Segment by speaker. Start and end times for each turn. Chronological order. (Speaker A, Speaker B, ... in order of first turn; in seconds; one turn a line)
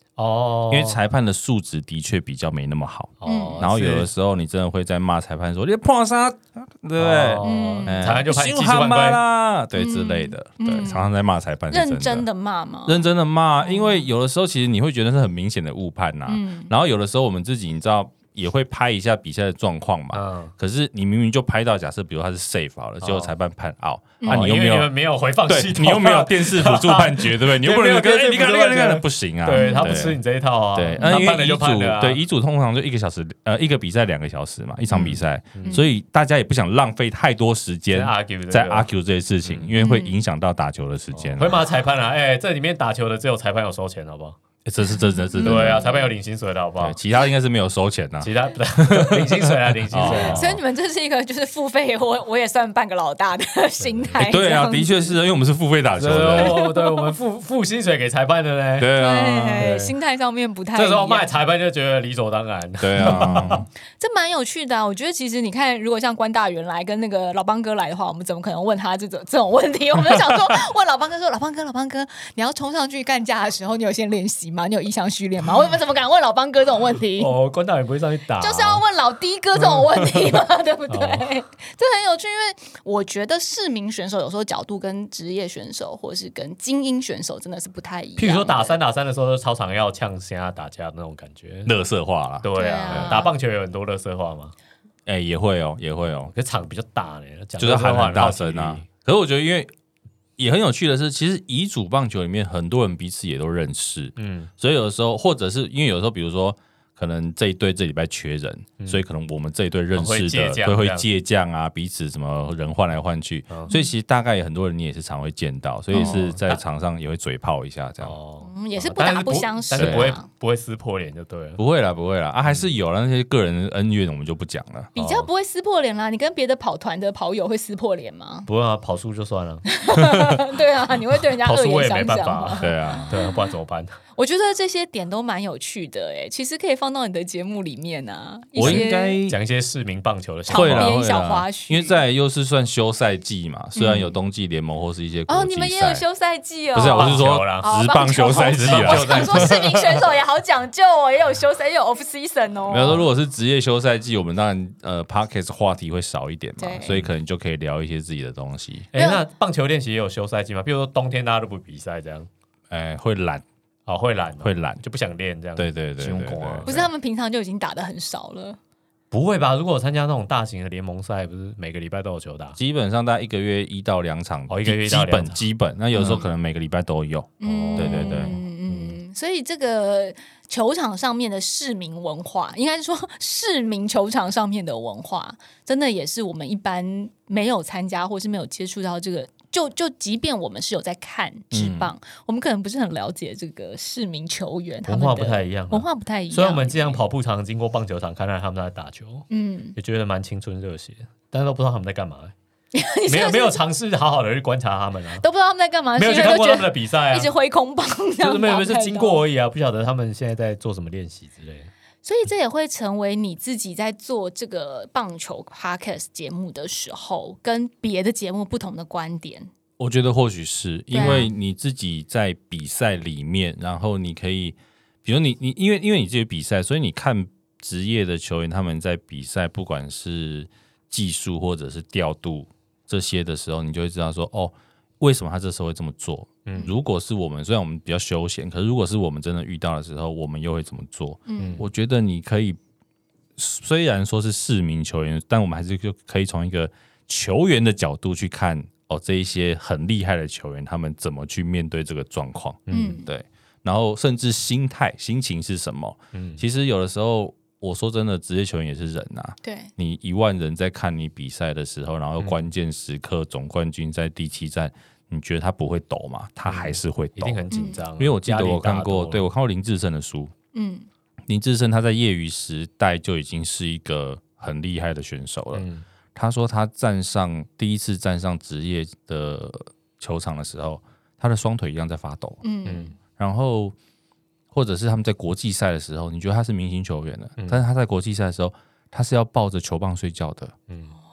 Speaker A: 0.2-1.0
Speaker B: 0.7-12.2
Speaker A: 3.2-4.1
Speaker C: 3.2-3.7
Speaker A: 7.0-9.2
Speaker C: 7.4-8.0
Speaker C: 9.7-11.1
Speaker C: 11.7-13.1
Speaker B: 12.8-24.9
Speaker C: 13.6-14.1
Speaker C: 16.3-16.7
Speaker A: 20.1-20.5
Speaker A: 23.0-23.3
Speaker C: 24.2-24.5
Speaker A: 24.2-32.2
Speaker B: 25.5-30.2
Speaker C: 29.5-30.0
Speaker B: 30.7-41.6
Speaker C: 31.0-31.2
Speaker A: 34.9-35.8
Speaker A: 37.9-38.9
Speaker A: 39.4-39.7
Speaker C: 39.8-40.2
Speaker A: 41.1-44.4
Speaker B: 44.6-45.9
Speaker C: 45.0-46.1
Speaker A: 45.4-47.0
Speaker B: 46.8-50.6
Speaker A: 48.2-50.6
Speaker C: 50.1-55.1
Speaker A: 53.8-54.1
Speaker B: 54.1-56.6
Speaker A: 56.0-58.9
Speaker C: 56.4-57.1
Speaker B: 58.8-59.7
Speaker C: 58.9-61.3
Speaker A: 59.6-59.9
Speaker A: 60.7-63.6
Speaker B: 62.8-63.7
Speaker C: 63.0-63.4
Speaker C: 64.0-77.3
Speaker A: 77.2-78.8
Speaker C: 78.4-88.8
Speaker A: 79.6-80.3
Speaker A: 80.9-81.2
Speaker A: 88.2-91.7
Speaker B: 91.7-93.2
Speaker A: 92.4-94.5
Speaker C: 92.5-93.3
Speaker B: 95.0-96.3
Speaker A: 96.3-98.8
Speaker B: 97.6-99.7
Speaker B: 100.4-118.2
Speaker A: 104.2-104.5
Speaker A: 108.8-109.0
Speaker A: 109.9-111.0
Speaker C: 115.9-116.3
Speaker A: 115.9-116.6
Speaker A: 118.0-121.6
Speaker C: 118.4-120.3
Speaker B: 119.8-120.1
Speaker B: 121.6-124.9
Speaker C: 124.9-128.5
Speaker A: 125.0-125.3
Speaker A: 128.5-129.7
Speaker C: 129.7-133.4
Speaker B: 130.0-130.4
Speaker A: 131.2-133.9
Speaker B: 132.6-133.1
Speaker C: 134.2-139.2
Speaker B: 138.5-139.4
Speaker A: 138.6-141.0
Speaker C: 140.5-142.0
Speaker B: 140.5-146.0
Speaker C: 143.7-144.1
Speaker C: 145.3-153.0
Speaker B: 146.7-149.9
Speaker A: 146.9-147.7
Speaker A: 148.3-149.6
Speaker B: 152.7-158.9
Speaker C: 156.6-156.9
Speaker A: 158.9-162.3
Speaker C: 158.9-159.2
Speaker B: 162.7-163.4
Speaker A: 163.9-166.9
Speaker B: 164.4-164.8
Speaker B: 165.6-166.7
Speaker C: 166.7-168.6
Speaker A: 169.1-172.6
Speaker B: 172.6-178.3
Speaker A: 174.5-176.2
Speaker C: 177.4-197.0
Speaker A: 177.4-179.0
Speaker B: 191.5-191.9
Speaker A: 194.9-202.3
Speaker C: 199.3-199.8
Speaker C: 202.7-203.6
Speaker A: 203.1-205.2
Speaker C: 205.2-209.2
Speaker A: 205.9-207.3
Speaker A: 208.2-211.7
Speaker C: 212.0-219.5
Speaker B: 219.8-242.6
Speaker C: 220.9-221.3
Speaker A: 221.0-221.3
Speaker A: 236.4-236.7
Speaker C: 241.3-241.6
Speaker A: 241.4-241.6
Speaker B: 243.4-270.3
Speaker A: 252.7-253.0
Speaker C: 252.7-253.1
Speaker A: 256.1-256.4
Speaker C: 259.4-259.7
Speaker A: 266.4-269.3
Speaker C: 267.5-267.8
Speaker C: 270.5-270.9
Speaker B: 271.3-282.4
Speaker A: 275.5-275.8
Speaker C: 282.4-282.9
Speaker A: 282.6-282.9
Speaker B: 283.1-283.7
Speaker B: 284.5-290.5
Speaker A: 287.4-287.6
Speaker A: 290.7-290.9